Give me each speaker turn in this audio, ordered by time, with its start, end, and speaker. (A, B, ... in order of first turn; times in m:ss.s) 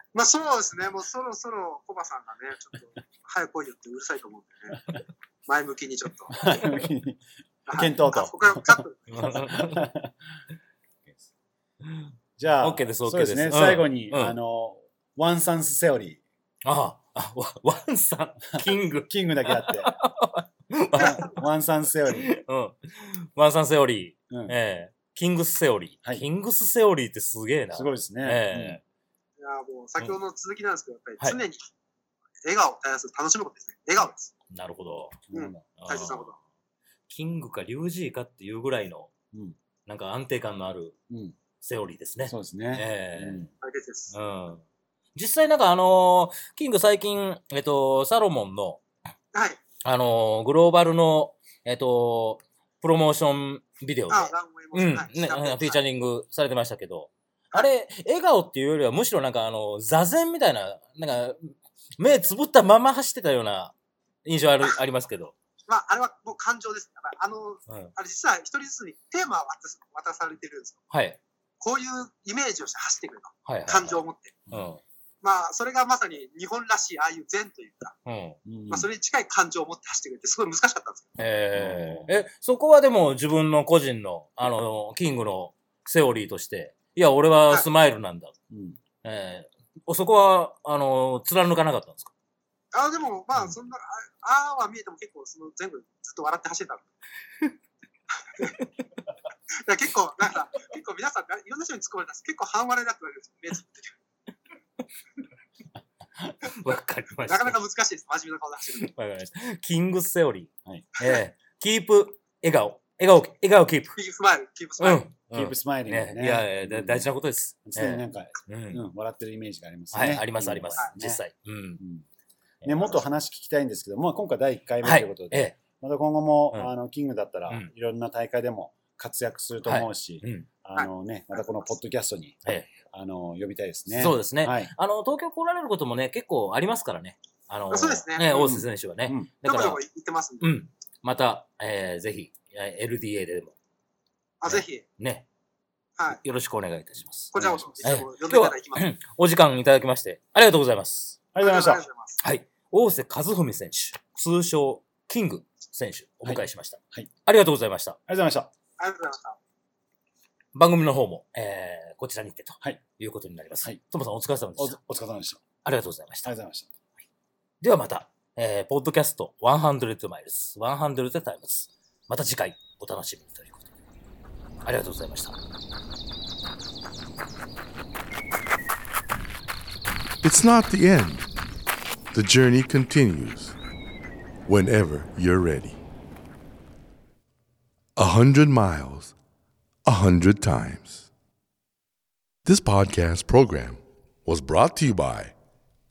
0:00.1-0:05.0 A
0:05.5-0:06.4 A
0:06.3-0:07.2 B
0:07.7-0:09.3 A
0:07.7-0:10.1 B
0:09.1-0:09.9 C
0:11.8-0:12.1 C
0:12.4-0:16.2 B
0:12.6-0:14.4 C
0:16.6-0:21.4 C
0:19.1-0:19.9 B
0:20.9-0:22.3 B
0:21.0-0:21.3 A
0:22.0-0:28.8 C
0:24.3-0:24.6 B
0:27.7-0:28.8 B
0:29.4-0:31.7 A
0:32.4-0:34.3 A
0:34.5-0:35.2 C
0:35.3-0:35.6 B
0:35.3-0:36.4 A
0:35.8-0:36.4 C
0:37.1-0:39.1 C
0:39.8-0:41.0 C
0:41.1-0:41.4 B
0:41.6-0:43.5 C
0:42.3-0:43.5 B
0:43.6-0:44.1 A
0:44.1-0:44.6 C
0:45.1-0:48.8 C
0:49.3-0:49.6 A
0:49.8-1:03.7 C
0:54.1-0:55.8 A
1:04.2-1:05.3 C
1:05.7-1:10.8 A
1:07.7-1:07.9 C
1:10.9-1:11.2 C
1:11.6-1:14.3 A
1:13.4-1:14.8 C
1:15.2-1:17.9 A
1:18.0-1:18.4 C
1:18.4-1:18.9 B
1:18.7-1:21.1 A
1:21.2-1:28.3 C
1:21.5-1:22.3 B
1:28.5-1:28.8 B
1:29.0-1:32.1 C
1:32.7-1:36.9 A
1:39.6-1:44.0 A
1:46.3-1:47.6 C
1:47.3-1:48.9 A
1:48.8-1:54.0 C
1:53.9-1:55.0 A
1:54.8-1:58.8 C
1:55.3-1:57.1 B
1:57.6-2:01.2 B
1:59.9-2:01.8 C
2:01.8-2:02.0 B
2:02.6-2:03.0 C
2:02.6-2:14.7 B
2:04.8-2:05.6 C
2:09.6-2:10.5 C
2:10.7-2:11.5 A
2:12.4-2:12.7 C
2:13.9-2:19.8 C
2:17.7-2:18.6 A
2:18.4-2:19.3 B
2:19.4-2:20.5 A
2:20.4-2:23.5 C
2:24.4-2:24.8 A
2:24.4-2:25.2 C
2:26.1-2:31.2 C
2:27.3-2:28.9 A
2:27.3-2:27.8 B
2:31.3-2:31.8 B
2:31.4-2:32.2 A
2:32.2-2:38.0 C
2:36.2-2:37.1 B
2:38.1-2:38.5 B
2:38.8-2:39.4 A
2:40.5-2:44.8 C
2:44.6-2:45.5 B
2:45.6-2:46.3 C
2:46.2-2:46.7 B
2:47.6-2:53.6 C
2:54.6-2:55.4 C
3:00.2-3:01.3 D
3:02.1-3:03.6 D
3:04.4-3:05.8 D
3:08.0-3:09.1 D
3:09.8-3:11.0 D
3:12.4-3:15.3 D